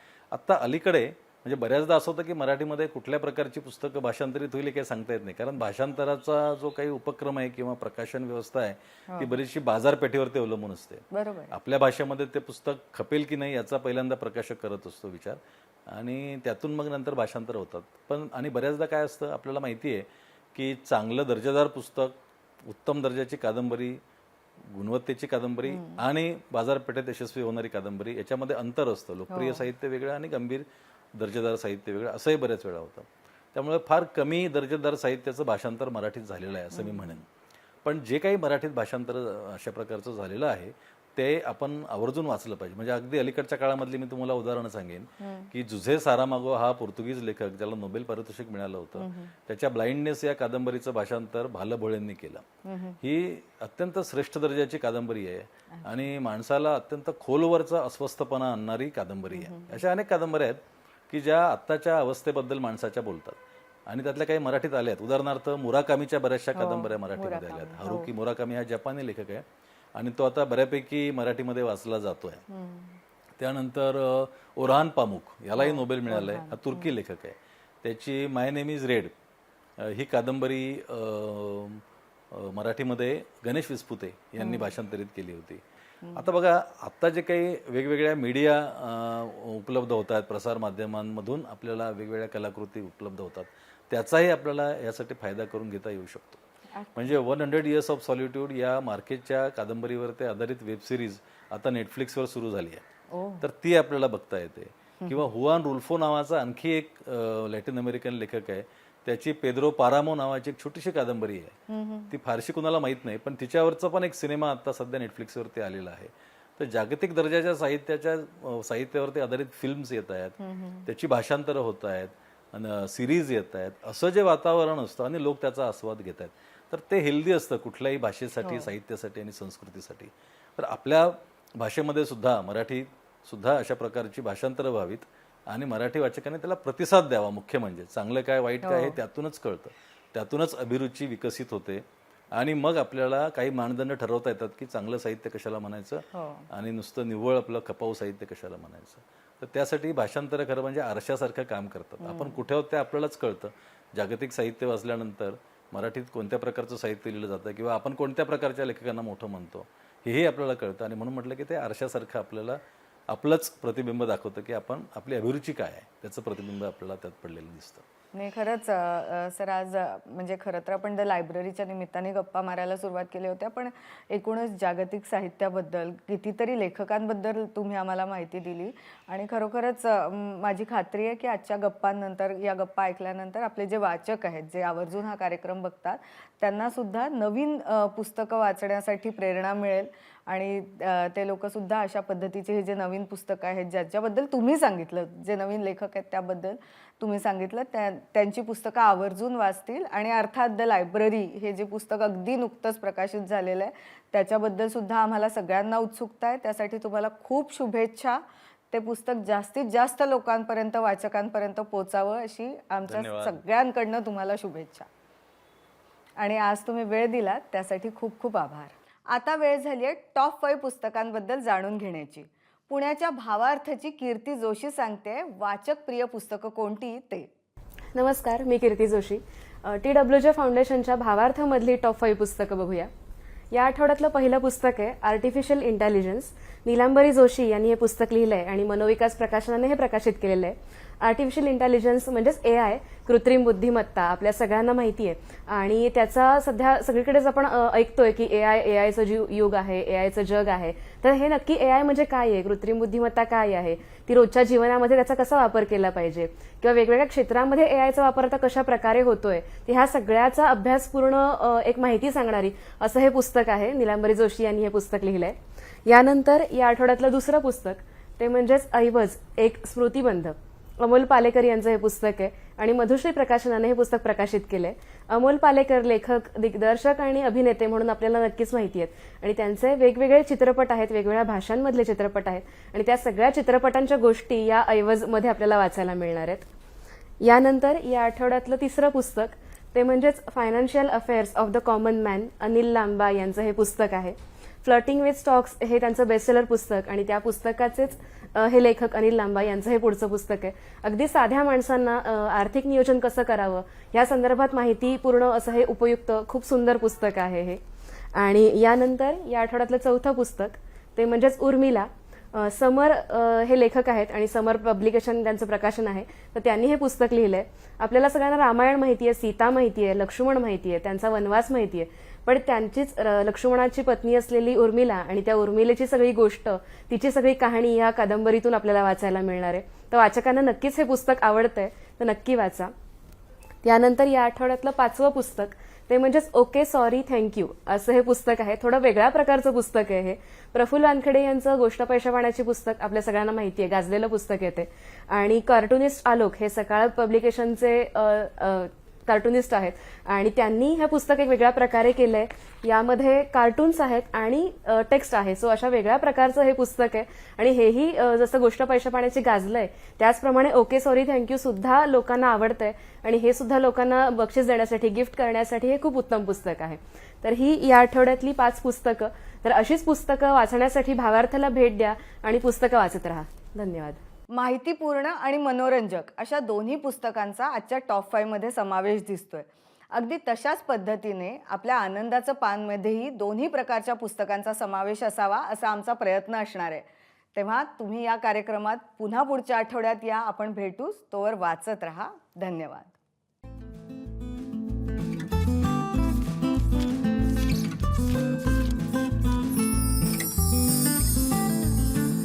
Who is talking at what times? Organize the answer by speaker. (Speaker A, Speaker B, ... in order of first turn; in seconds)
Speaker A: 0.3-24.0, 24.7-37.2, 37.8-52.4, 53.0-72.4, 73.4-79.1, 79.8-85.6, 86.1-96.4, 97.0-102.8, 103.4-111.6, 112.1-167.8, 212.8-213.4
Speaker B: 9.1-9.4, 11.1-11.5, 25.7-26.0, 29.3-29.6, 36.7-37.2, 45.2-45.5, 49.0-49.3, 52.6-53.0, 55.7-56.1, 59.3-59.8, 66.5-68.1, 72.5-73.0, 75.6-76.9, 84.4-84.7, 86.0-86.3, 96.7-97.2, 103.1-103.4, 111.7-112.1, 120.4-120.8, 128.4-128.7, 138.6-139.0, 146.2-146.5, 152.0-152.4, 168.1-214.9, 216.2-227.3, 374.3-392.9
Speaker C: 227.9-232.9, 233.5-286.5, 287.2-307.6, 308.1-332.7, 333.6-374.0